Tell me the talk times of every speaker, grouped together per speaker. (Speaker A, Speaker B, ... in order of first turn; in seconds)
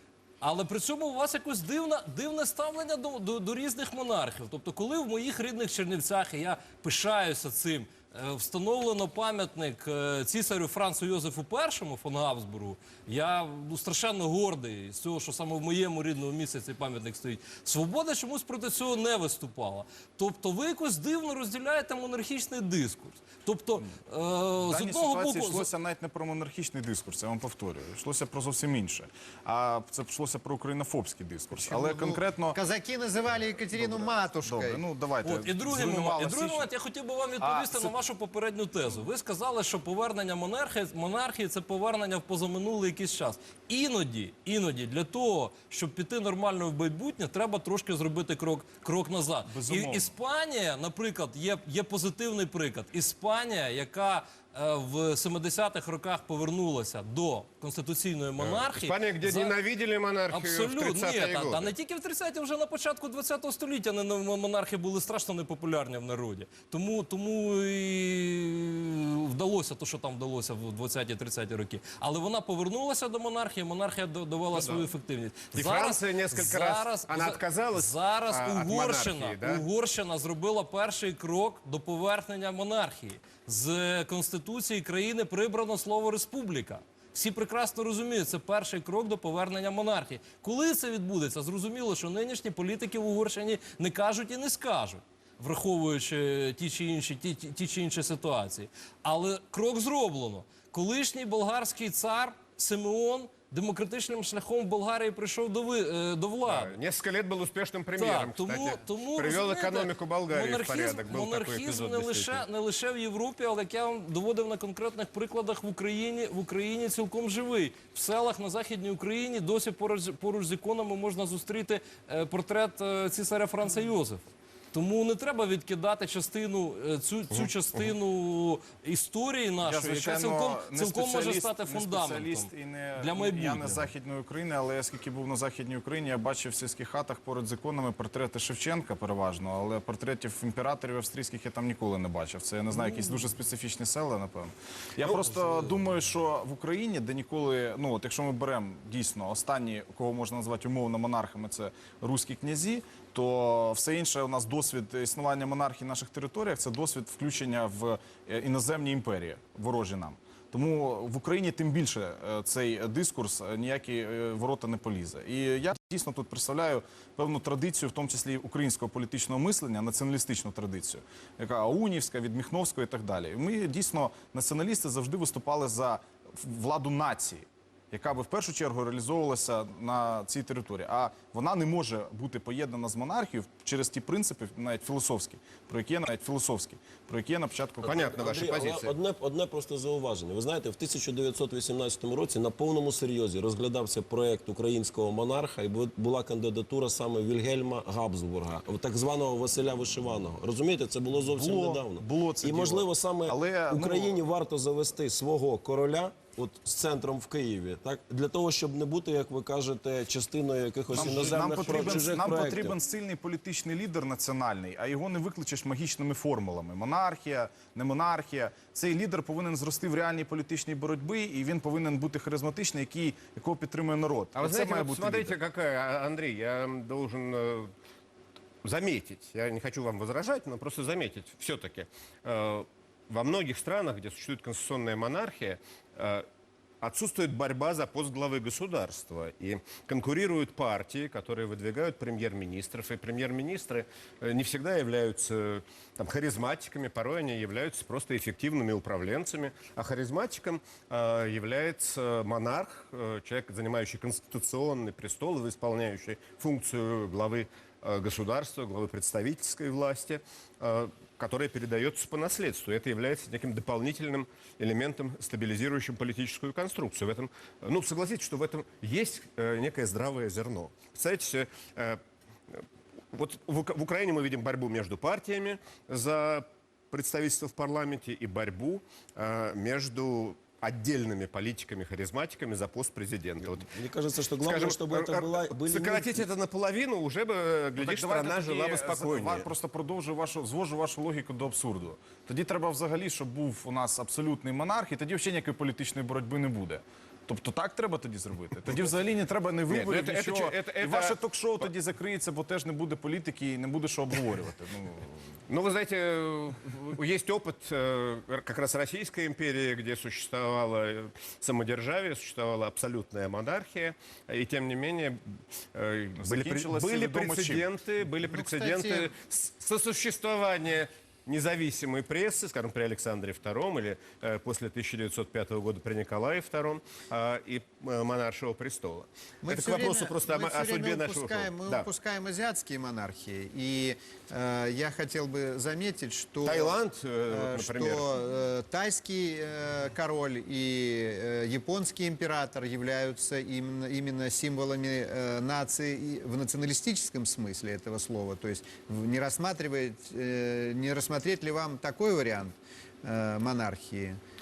Speaker A: 0.4-25.7, 35.2-59.6, 60.3-106.7, 108.0-133.9, 142.7-143.2
Speaker B: 24.6-32.6, 33.7-36.7, 37.4-38.0, 49.5-50.1, 129.6-188.1, 201.2-204.2, 210.9-225.3, 287.8-305.2, 316.2-317.7
Speaker C: 31.6-34.8, 318.2-319.1, 329.4-354.2
Speaker D: 58.4-61.7, 74.5-74.9, 75.5-79.6, 106.4-112.5, 145.0-145.3, 187.8-188.9, 224.4-227.7, 228.6-236.2, 236.8-283.7, 284.4-289.5, 299.7-301.7, 305.5-315.2, 315.7-331.9, 336.4-338.1
Speaker E: 187.9-212.8, 283.5-286.3